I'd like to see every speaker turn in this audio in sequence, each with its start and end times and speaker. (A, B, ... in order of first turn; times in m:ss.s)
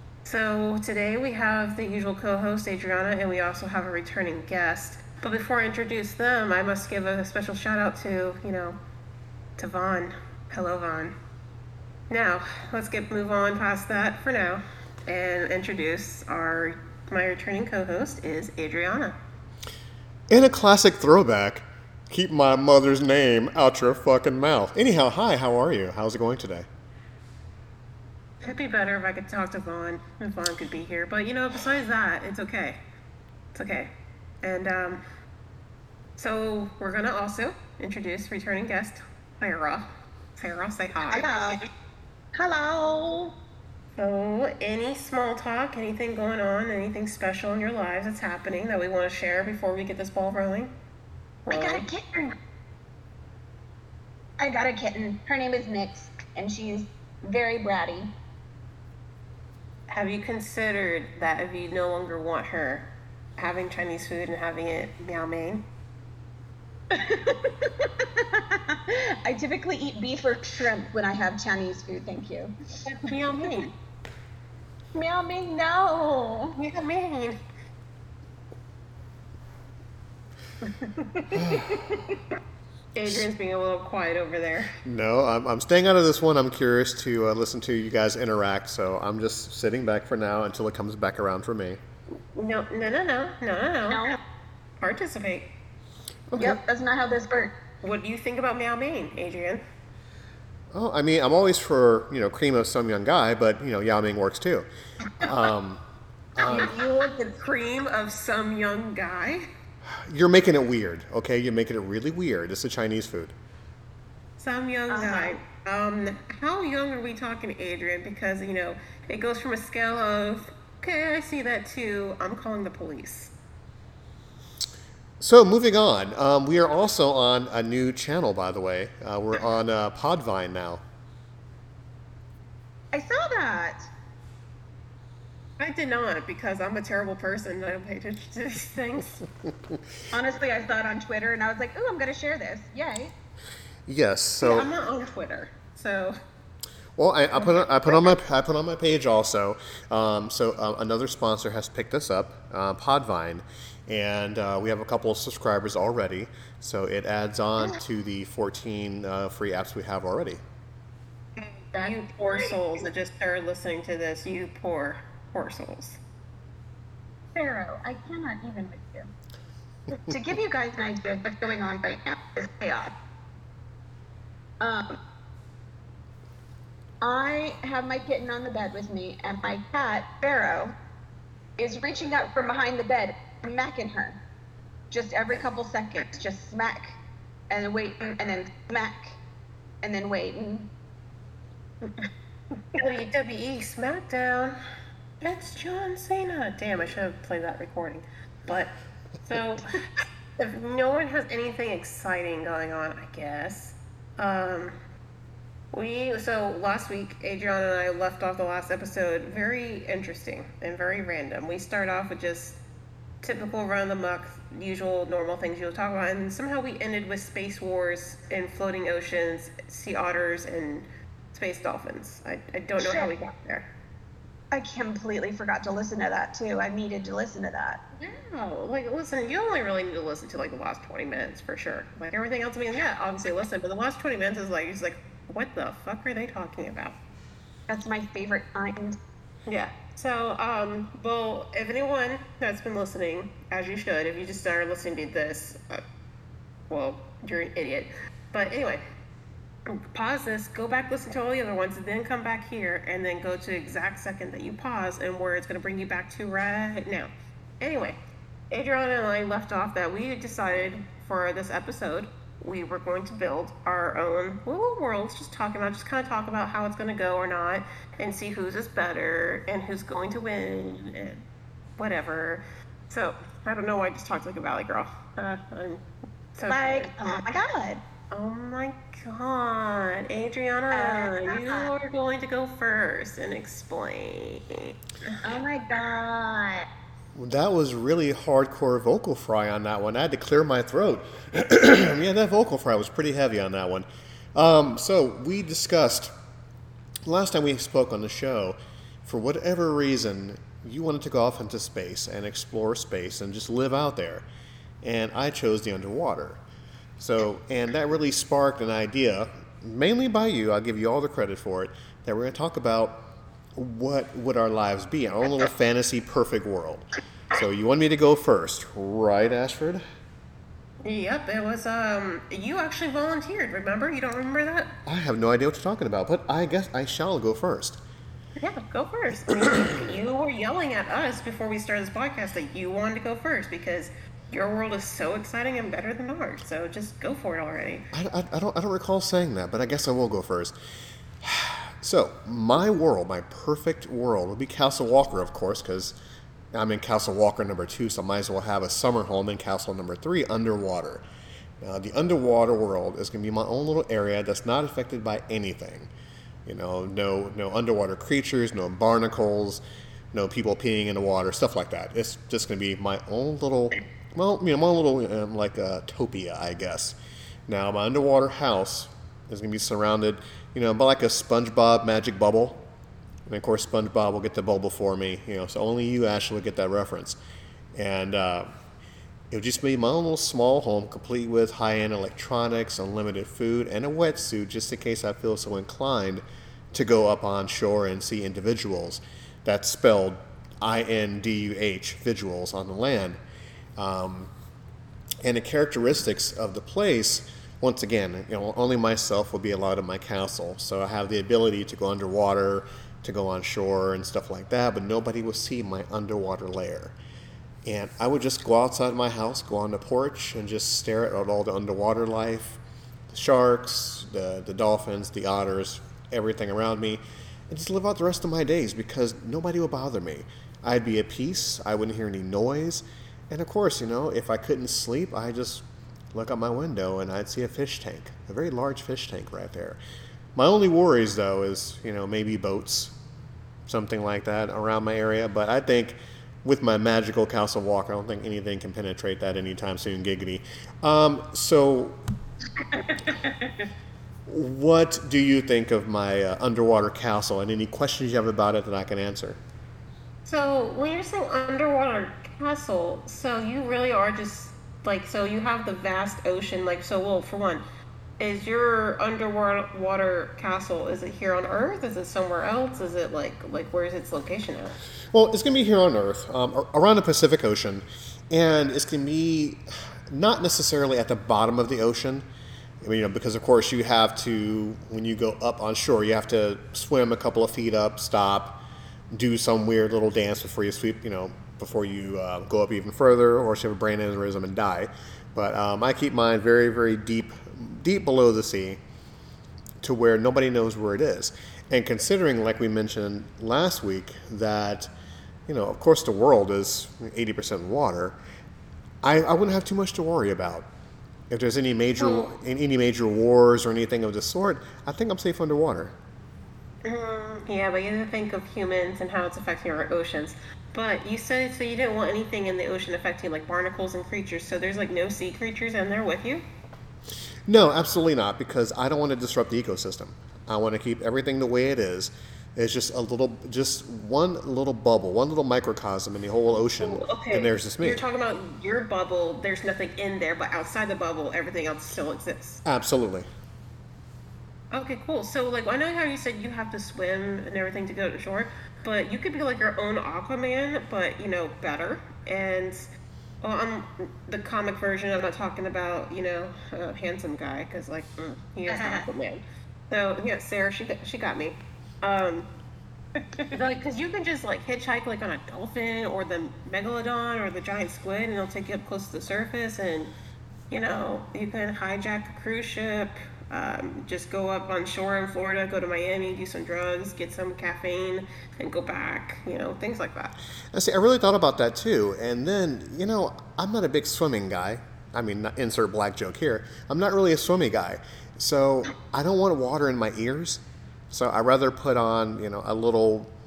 0:00.2-0:08.8 A
0:09.6-0:11.2 A
0:12.1-0:19.2 A
0:20.3-0:26.7 B
0:28.4-0:32.8 A
0:33.5-0:35.0 A
0:36.2-0:41.3 A
0:41.1-0:41.6 C
0:42.3-0:43.3 C
0:44.0-0:50.7 A
0:51.4-0:51.8 A
0:51.5-0:52.3 C
0:54.4-0:58.1 C
0:59.9-1:05.6 A
1:06.9-1:12.5 C
1:12.8-1:13.7 A
1:13.1-1:13.5 C
1:14.9-1:16.6 C
1:16.6-1:17.4 A
1:21.2-1:22.3 C
1:21.3-1:22.0 B
1:22.9-1:24.7 A
1:24.8-1:31.8 B
1:32.1-1:34.0 A
1:33.9-1:34.2 C
1:34.8-1:35.5 A
1:36.3-1:36.6 B
1:36.4-1:37.5 C
1:37.8-1:39.6 A
1:40.7-1:44.7 B
1:45.2-1:45.8 B
1:46.4-1:46.7 B
1:46.4-1:49.4 A
1:49.9-1:53.3 B
1:54.4-2:03.3 A
1:54.9-1:55.4 C
2:05.2-2:10.8 B
2:12.9-2:13.9 C
2:15.6-2:19.2 A
2:20.1-2:23.1 C
2:23.9-2:24.7 B
2:24.4-2:26.2 A
2:27.0-2:40.4 B
2:41.4-2:46.0 A
2:41.7-2:42.6 C
2:47.3-2:49.1 C
2:50.1-2:52.9 C
2:54.6-2:55.0 C
2:57.0-3:00.7 C
3:01.6-3:04.2 C
3:04.9-3:07.0 C
3:07.5-3:09.2 C
3:09.8-3:10.7 C
3:12.7-3:14.6 A
3:15.2-3:19.8 A
3:20.4-3:24.8 A
3:25.7-3:32.6 A
3:33.2-3:43.7 A
3:42.8-3:43.1 C
3:44.5-3:47.8 C
3:48.0-3:57.0 A
3:57.7-3:59.0 C
3:59.5-4:05.8 A
4:06.7-4:08.8 A
4:09.7-4:18.0 A
4:18.5-4:31.2 A
4:31.8-4:35.8 A
4:36.3-4:37.0 A
4:36.5-4:37.8 C
4:38.1-4:45.2 A
4:40.7-4:41.7 C
4:45.2-4:46.6 C
4:47.1-4:56.1 B
4:57.0-5:04.2 B
5:04.8-5:06.4 B
5:07.0-5:19.8 B
5:20.8-5:24.7 A
5:24.8-5:27.8 B
5:28.4-5:37.8 A
5:37.9-5:40.5 B
5:41.2-5:46.0 B
5:46.5-5:51.0 B
5:51.6-5:55.9 B
5:56.4-6:07.0 B
6:07.5-6:12.6 B
6:13.3-6:17.2 B
6:17.7-6:18.5 B
6:19.3-6:33.2 B
6:33.8-6:34.3 B
6:35.2-6:46.9 B
6:47.6-7:09.8 B
7:10.4-7:13.0 B
7:13.7-7:22.0 B
7:22.7-7:23.6 C
7:24.2-7:29.4 B
7:30.2-7:37.6 A
7:38.2-7:44.8 A
7:45.1-7:52.2 B
7:52.8-7:58.6 B
7:59.1-8:08.8 B
8:09.8-8:14.9 B
8:15.5-8:18.2 B
8:19.0-8:20.7 B
8:21.3-8:25.9 B
8:22.0-8:22.3 A
8:26.8-8:36.4 A
8:37.5-8:48.0 B
8:46.6-8:52.6 A
8:52.6-8:53.3 B
8:54.7-9:02.9 A
9:03.4-9:12.5 A
9:08.7-9:09.1 C
9:13.2-9:13.5 C
9:13.5-9:20.1 A
9:20.7-9:30.4 A
9:30.7-9:43.3 B